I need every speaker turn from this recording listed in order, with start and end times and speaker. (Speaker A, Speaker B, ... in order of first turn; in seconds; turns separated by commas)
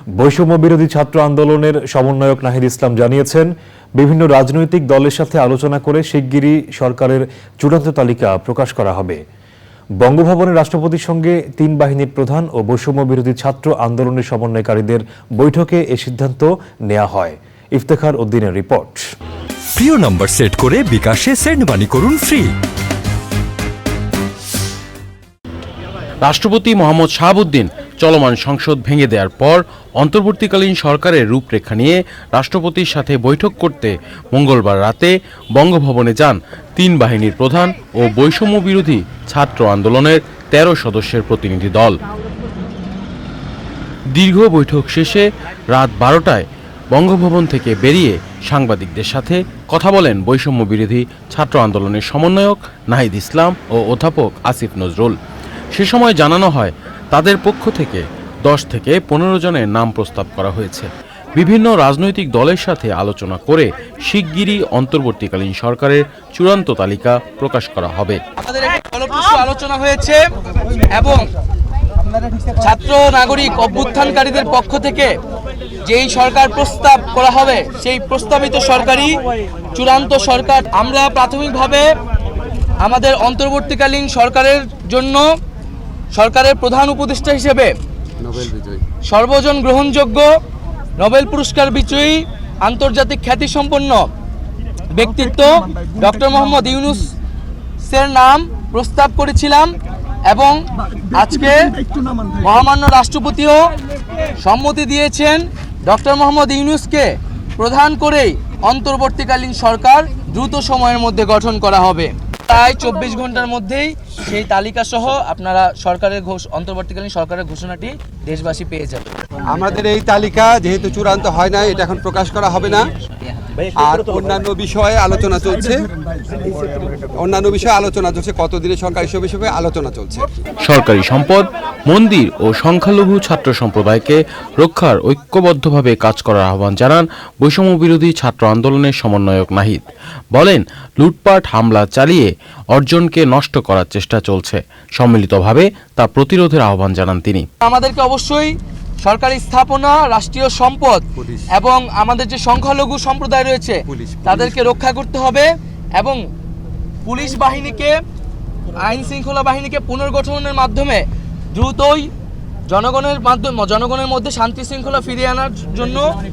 Speaker A: 0.2-9.2, Speaker A: 10.0-19.0, Speaker B: 19.8-22.6, Speaker C: 26.2-42.0, Speaker C: 44.1-55.1, Speaker C: 55.7-68.2, Speaker D: 68.4-70.2, Speaker D: 70.9-71.2, Speaker D: 72.6-75.2, Speaker D: 75.8-79.2, Speaker D: 79.7-81.9, Speaker D: 82.8-85.2, Speaker D: 86.1-87.7, Speaker E: 88.2-88.8, Speaker D: 89.0-90.3, Speaker D: 91.0-94.1, Speaker D: 94.9-97.1, Speaker D: 97.8-99.8, Speaker D: 100.3-100.6, Speaker D: 101.1-101.8, Speaker D: 102.4-103.7, Speaker D: 104.4-119.2, Speaker E: 119.5-122.9, Speaker E: 123.8-125.9, Speaker E: 127.2-130.3, Speaker C: 130.6-147.5, Speaker D: 147.6-156.2, Speaker E: 151.2-151.5, Speaker E: 153.9-154.8, Speaker D: 157.1-158.0, Speaker D: 158.8-162.1, Speaker D: 162.7-166.1